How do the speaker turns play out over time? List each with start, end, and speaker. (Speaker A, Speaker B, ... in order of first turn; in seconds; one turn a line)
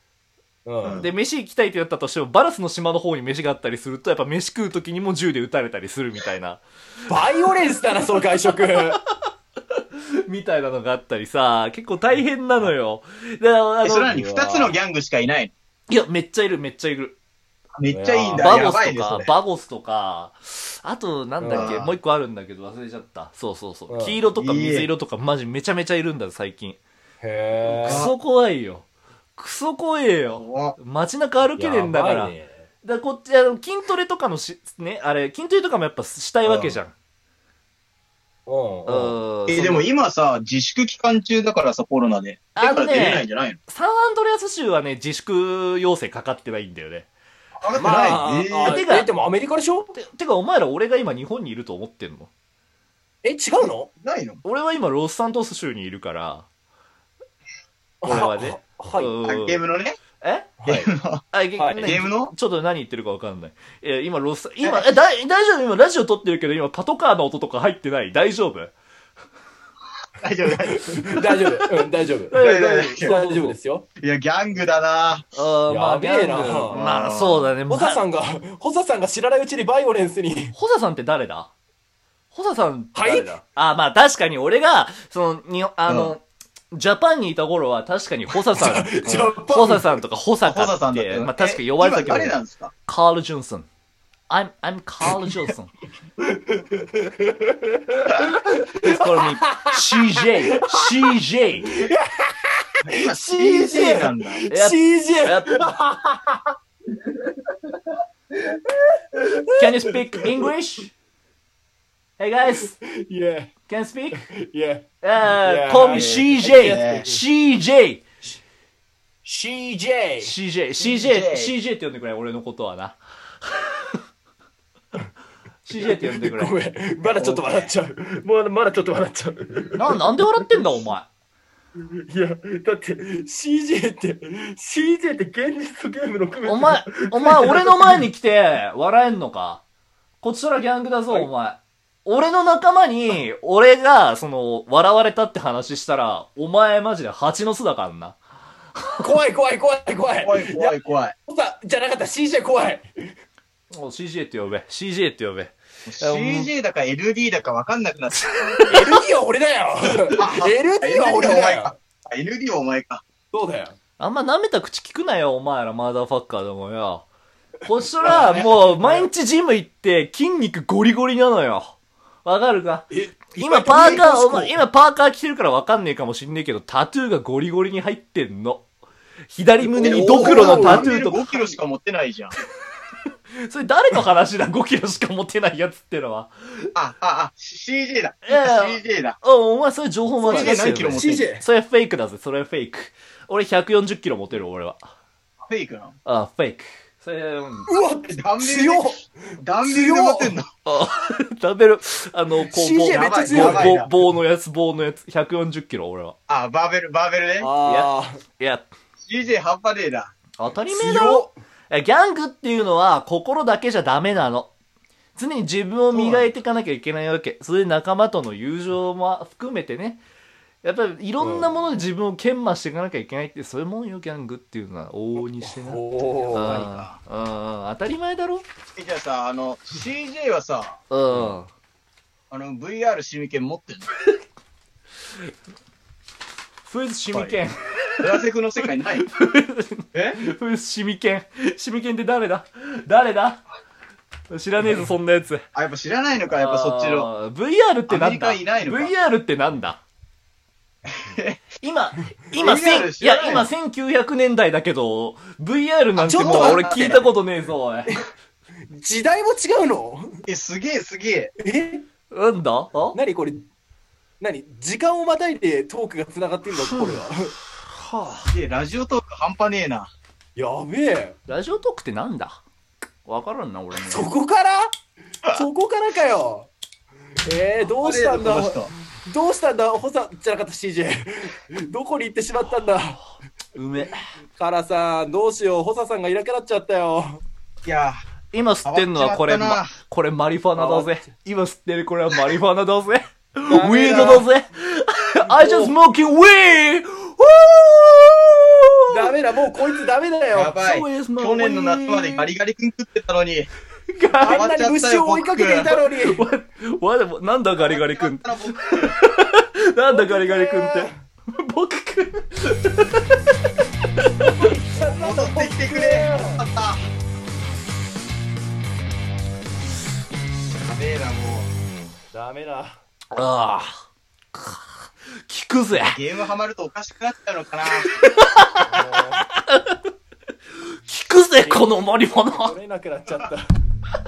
Speaker A: 0.7-1.0
Speaker B: 0.8-1.1
Speaker C: 0.9-6.6
Speaker A: 7.1-9.0
Speaker C: 9.8-14.2
Speaker B: 13.8-15.5
Speaker A: 14.1-14.8
Speaker C: 15.9-17.2
Speaker B: 17.8-19.3
Speaker A: 17.9-18.5
Speaker C: 18.3-26.8
Speaker A: 21.4-21.8
Speaker B: 21.5-22.0
Speaker A: 23.9-24.2
Speaker B: 24.3-24.9
Speaker A: 27.2-28.1
Speaker C: 27.6-36.9
Speaker B: 27.8-28.1
Speaker B: 30.3-30.8
Speaker A: 31.6-32.6
Speaker B: 36.4-36.8
Speaker A: 38.5-39.1
Speaker C: 38.9-39.8
Speaker B: 39.5-43.6
Speaker C: 42.5-47.1
Speaker B: 47.6-48.8
Speaker A: 47.8-50.0
Speaker C: 47.9-49.1
Speaker C: 50.0-52.3
Speaker A: 53.2-53.9
Speaker B: 53.6-54.4
Speaker C: 54.4-56.5
Speaker A: 58.0-59.1
Speaker C: 58.0-59.6
Speaker B: 59.2-60.0
Speaker C: 60.2-60.5
Speaker A: 60.6-60.9
Speaker B: 60.6-61.2
Speaker C: 61.3-68.7
Speaker A: 61.5-62.0
Speaker B: 61.8-62.3
Speaker B: 64.6-64.9
Speaker B: 70.2-71.3
Speaker A: 70.7-72.4
Speaker C: 72.3-73.5
Speaker B: 72.4-73.2
Speaker A: 73.0-73.8
Speaker B: 74.0-75.3
Speaker C: 75.3-78.0
Speaker A: 75.7-76.8
Speaker B: 76.7-77.5
Speaker A: 77.7-80.5
Speaker C: 80.5-81.5
Speaker C: 82.3-93.7
Speaker A: 82.9-83.3
Speaker B: 85.9-86.1
Speaker A: 88.5-89.8
Speaker B: 89.0-89.8
Speaker B: 90.4-92.7
Speaker C: 94.3-95.7
Speaker A: 96.3-99.8
Speaker C: 98.8-101.8
Speaker A: 101.8-106.0
Speaker B: 102.8-104.5
Speaker C: 104.5-105.7
Speaker A: 109.2-110.0
Speaker C: 109.6-110.9
Speaker C: 112.2-112.7
Speaker A: 112.8-113.5
Speaker C: 113.7-114.2
Speaker A: 114.3-117.2
Speaker C: 115.0-118.0
Speaker B: 115.8-117.1
Speaker A: 119.2-120.3
Speaker C: 120.2-123.9
Speaker B: 120.8-121.5
Speaker C: 125.6-126.5
Speaker A: 125.8-130.4
Speaker B: 127.1-127.7
Speaker C: 129.8-131.1
Speaker A: 132.1-138.0
Speaker C: 136.4-139.6
Speaker C: 140.2-148.2
Speaker A: 149.0-153.1
Speaker B: 150.2-151.1
Speaker C: 153.7-156.5
Speaker B: 155.9-158.6
Speaker C: 158.5-158.8
Speaker A: 158.7-161.7
Speaker B: 160.2-163.0
Speaker A: 163.3-163.8
Speaker C: 164.0-167.1
Speaker C: 167.6-171.7
Speaker A: 168.0-169.1
Speaker C: 172.2-178.7
Speaker A: 172.9-174.6
Speaker C: 179.3-181.5
Speaker A: 179.6-180.9
Speaker B: 179.8-182.3
Speaker C: 183.4-186.7
Speaker B: 186.7-189.2
Speaker C: 188.2-194.9
Speaker B: 190.2-191.2
Speaker A: 190.3-191.4
Speaker B: 195.5-195.9
Speaker C: 196.0-197.7
Speaker A: 197.7-200.3
Speaker B: 198.2-200.5
Speaker C: 200.7-206.1
Speaker A: 202.5-203.8
Speaker B: 202.9-203.9
Speaker B: 206.3-207.5
Speaker A: 207.4-208.2
Speaker C: 207.7-208.7
Speaker B: 209.0-210.1
Speaker C: 210.4-214.5
Speaker A: 210.7-211.3
Speaker C: 215.2-220.0
Speaker A: 215.9-216.2
Speaker C: 220.6-228.4
Speaker A: 221.2-221.5
Speaker A: 225.4-226.6
Speaker B: 226.3-227.0
Speaker B: 228.8-230.8
Speaker C: 230.9-231.5
Speaker B: 232.3-233.9
Speaker C: 236.7-238.0
Speaker B: 238.0-239.1
Speaker C: 239.1-243.4
Speaker B: 239.9-240.2
Speaker C: 244.3-245.4
Speaker B: 245.5-247.1
Speaker C: 246.3-249.8
Speaker B: 247.9-248.9
Speaker B: 251.1-251.4
Speaker C: 251.6-258.0
Speaker B: 252.4-253.5
Speaker A: 256.0-257.1
Speaker B: 256.1-257.1
Speaker A: 258.7-260.2
Speaker B: 260.2-261.3
Speaker A: 261.4-261.8
Speaker C: 262.1-263.0
Speaker A: 262.9-263.4
Speaker A: 264.2-267.3
Speaker C: 266.6-267.0
Speaker C: 267.6-268.3
Speaker B: 268.3-269.9
Speaker A: 270.4-271.1
Speaker C: 271.3-272.4
Speaker C: 273.0-274.1
Speaker A: 273.7-274.7
Speaker A: 275.3-276.5
Speaker A: 277.2-283.0
Speaker B: 277.8-278.7
Speaker C: 283.5-284.0
Speaker A: 284.4-287.2
Speaker B: 287.6-288.0
Speaker C: 288.3-299.1
Speaker B: 288.6-289.8
Speaker A: 290.5-290.9
Speaker A: 293.5-294.2
Speaker B: 293.6-294.2
Speaker A: 295.2-295.8
Speaker A: 298.9-300.6
Speaker B: 300.3-303.5
Speaker C: 300.6-302.3
Speaker C: 303.9-304.4
Speaker A: 304.2-306.2
Speaker B: 304.2-305.7
Speaker C: 306.1-313.1
Speaker B: 307.6-308.9
Speaker A: 309.9-310.9
Speaker C: 314.1-314.5
Speaker A: 314.3-316.4
Speaker B: 314.8-316.8
Speaker B: 320.6-321.5
Speaker A: 322.1-322.8
Speaker C: 323.1-326.0
Speaker B: 325.8-327.9
Speaker C: 328.0-329.8
Speaker A: 328.7-329.2
Speaker C: 330.9-332.6
Speaker A: 331.4-333.5